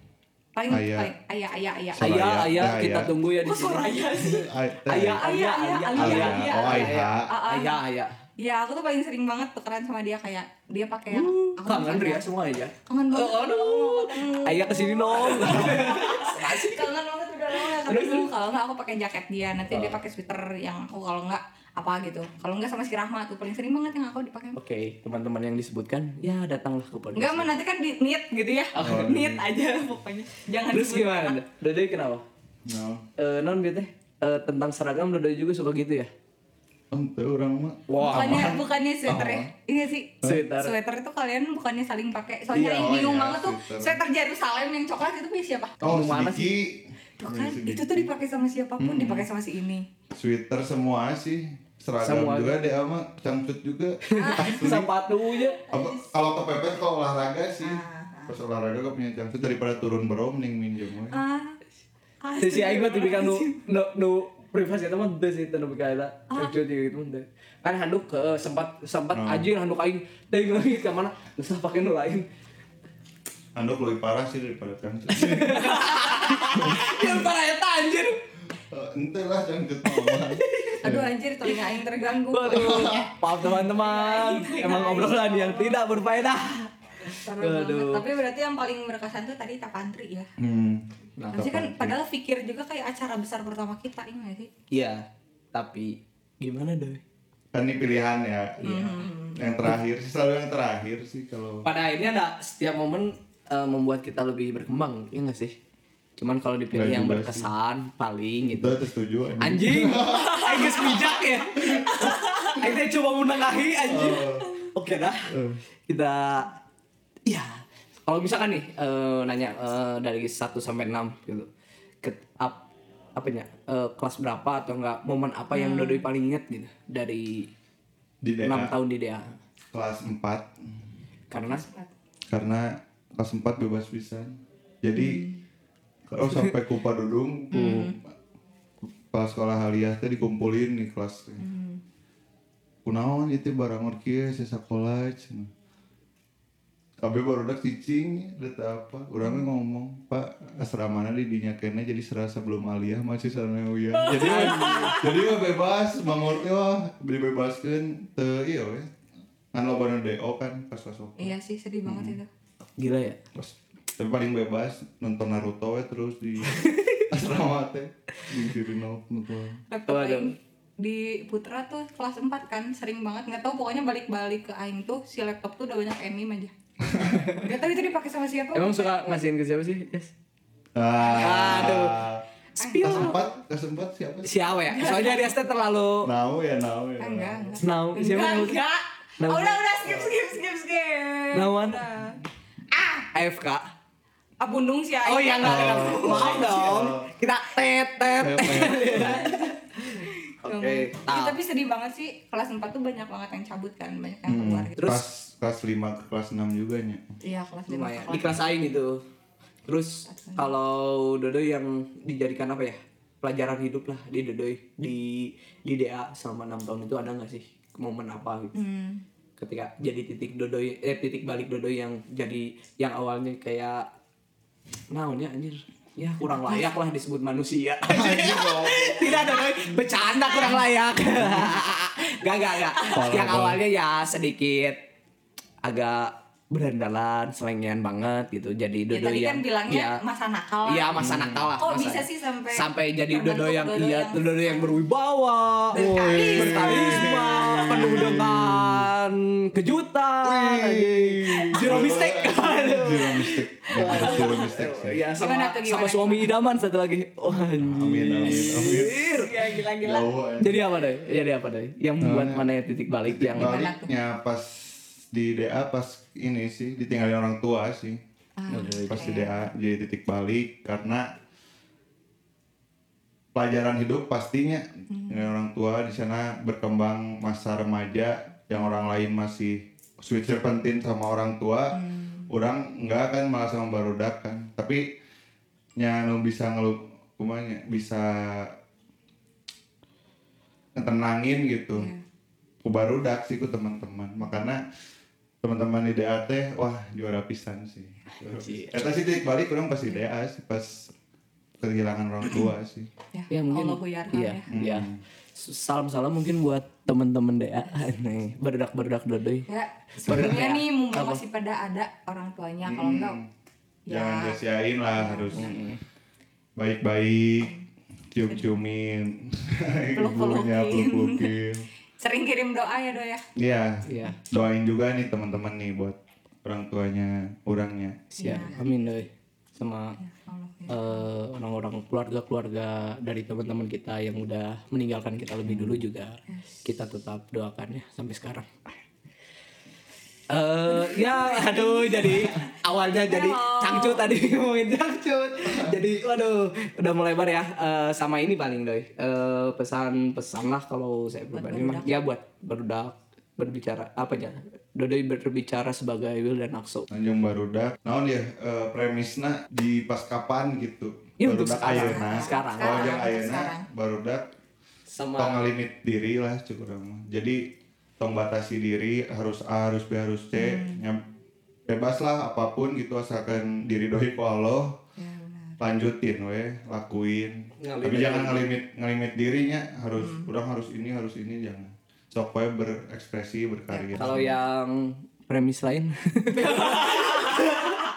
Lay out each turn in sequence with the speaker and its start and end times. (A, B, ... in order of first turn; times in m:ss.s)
0:00.6-0:02.1 A
0:00.7-0:01.1 B
0:01.9-0:03.1 B
0:02.0-0:04.3 C
0:03.4-0:04.5 A
0:04.3-0:05.2 B
0:04.9-0:08.1 C
0:05.2-0:07.8 A
0:06.0-0:07.3 B
0:08.4-0:12.2 A
0:11.1-0:16.9 C
0:12.9-0:24.6 A
0:17.5-0:18.3 C
0:24.5-0:27.5 C
0:27.2-0:31.4 A
0:28.8-0:29.1 C
0:28.8-0:29.4 B
0:30.7-0:32.2 C
0:32.6-0:33.0 B
0:33.2-0:36.1 C
0:36.9-0:39.5 B
0:37.9-0:38.6 C
0:38.0-0:45.8 A
0:40.2-0:40.7 C
0:42.5-0:43.0 C
0:42.8-0:44.0 B
0:45.8-0:46.5 C
0:45.8-0:48.1 B
0:47.2-0:49.8 A
0:48.8-0:49.3 B
0:50.1-0:54.9 B
0:52.0-0:52.6 C
0:54.1-0:55.6 C
0:54.2-0:54.8 A
0:55.4-0:56.1 A
0:55.7-1:01.2 B
0:57.6-0:58.3 A
1:01.1-1:01.6 A
1:02.2-1:03.6 A
1:02.4-1:12.2 C
1:09.1-1:09.5 B
1:13.6-1:15.8 B
1:15.1-1:18.2 C
1:16.6-1:17.1 B
1:18.7-1:21.1 B
1:19.8-1:20.8 C
1:20.8-1:22.8 A
1:22.3-1:28.0 C
1:22.5-1:23.1 B
1:23.5-1:25.9 A
1:27.1-1:30.3 A
1:30.4-1:32.0 B
1:31.2-1:31.5 C
1:31.3-1:34.5 A
1:34.7-1:37.0 C
1:37.5-1:41.6 B
1:38.6-1:39.4 A
1:41.6-1:45.5 C
1:46.2-1:48.8 C
1:46.7-1:47.5 B
1:48.5-1:50.8 B
1:49.4-1:55.3 C
1:53.9-1:54.5 B
1:55.3-1:55.6 B
1:55.9-1:56.5 C
1:57.3-2:01.5 C
2:02.0-2:02.6 C
2:03.2-2:07.5 C
2:05.5-2:06.0 A
2:08.2-2:08.7 B
2:08.4-2:09.4 C
2:09.7-2:10.8 B
2:11.3-2:11.6 C
2:11.4-2:11.9 A
2:12.3-2:15.2 B
2:15.0-2:15.4 A
2:16.1-2:18.0 B
2:16.2-2:16.5 C
2:17.5-2:17.9 A
2:19.1-2:21.4 B
2:21.4-2:21.8 A
2:22.8-2:25.5 B
2:27.0-2:38.9 B
2:34.0-2:35.0 C
2:34.1-2:35.1 A
2:39.5-2:42.2 B
2:41.2-2:42.3 A
2:42.8-2:43.2 C
2:43.3-2:49.6 B
2:46.5-2:47.1 C
2:49.7-2:56.5 A
2:49.9-2:50.3 C
2:56.8-2:57.3 B
2:57.1-2:57.4 C
2:57.3-2:59.3 A
2:58.5-3:00.1 C
3:00.7-3:02.2 B
3:01.0-3:01.8 A
3:01.2-3:02.0 C
3:02.6-3:03.2 C
3:02.6-3:03.2 A
3:02.8-3:04.3 B
3:04.2-3:06.1 C
3:04.7-3:05.4 A
3:06.0-3:07.6 B
3:07.0-3:12.2 A
3:07.6-3:08.6 C
3:09.2-3:09.6 C
3:11.3-3:11.8 C
3:12.7-3:13.1 A
3:13.1-3:13.7 C
3:14.4-3:16.9 A
3:15.0-3:21.4 C
3:15.4-3:17.0 B
3:18.2-3:19.2 B
3:18.5-3:24.8 A
3:24.3-3:27.0 B
3:24.8-3:25.0 C
3:27.2-3:28.4 A
3:27.7-3:29.0 C
3:29.6-3:38.6 C
3:30.1-3:30.5 A
3:38.5-3:39.0 A
3:39.4-3:43.8 C
3:44.9-3:54.8 C
3:46.3-3:46.7 A
3:47.9-3:49.2 B
3:49.1-3:49.5 A
3:50.1-3:50.6 A
3:51.2-3:51.5 B
3:52.9-3:53.6 B
3:55.6-4:00.0 C
3:58.9-4:04.8 A
4:00.7-4:19.4 C
4:01.0-4:01.5 B
4:05.7-4:07.8 A
4:05.7-4:08.8 B
4:10.2-4:15.0 B
4:13.9-4:14.4 A
4:15.2-4:16.3 A
4:17.5-4:19.3 B
4:18.9-4:20.1 A
4:19.8-4:20.6 B
4:20.4-4:23.5 C
4:22.0-4:22.4 B
4:23.0-4:28.0 B
4:23.4-4:23.9 A
4:28.4-4:29.4 A
4:28.5-4:29.1 C
4:28.9-4:31.1 B
4:33.3-4:44.8 B
4:34.9-4:35.3 A
4:41.7-4:42.3 A
4:45.8-4:48.5 B
4:50.7-4:51.9 B
4:51.7-4:52.0 A
4:52.6-4:54.6 B
4:55.4-5:00.9 B
4:58.2-4:58.8 C
5:01.6-5:02.9 B
5:03.1-5:04.4 A
5:03.3-5:09.5 C
5:04.5-5:05.0 B
5:09.5-5:13.2 A
5:10.0-5:11.2 C
5:10.1-5:10.4 B
5:12.6-5:13.2 B
5:13.9-5:14.4 A
5:13.9-5:15.6 B
5:15.0-5:15.5 A
5:15.3-5:15.8 C
5:16.6-5:17.5 B
5:18.1-5:21.7 B
5:20.0-5:21.3 A
5:22.0-5:23.2 A
5:23.4-5:28.0 B
5:23.9-5:24.2 C
5:28.1-5:30.0 C
5:28.2-5:28.8 A
5:30.0-5:31.0 A
5:30.7-5:38.5 C
5:35.4-5:35.8 B
5:40.3-5:56.9 C
5:40.7-5:44.1 A
5:51.3-5:52.0 A
5:56.9-6:04.2 B
6:01.2-6:03.1 C
6:01.6-6:03.6 A
6:04.9-6:05.4 C
6:05.2-6:07.4 B
6:08.0-6:11.0 B
6:10.3-6:10.8 A
6:11.7-6:14.7 B
6:15.0-6:15.6 A
6:15.6-6:24.2 B
6:17.6-6:18.4 C
6:20.0-6:20.3 A
6:23.7-6:24.4 A
6:24.0-6:27.8 C
6:26.7-6:27.4 A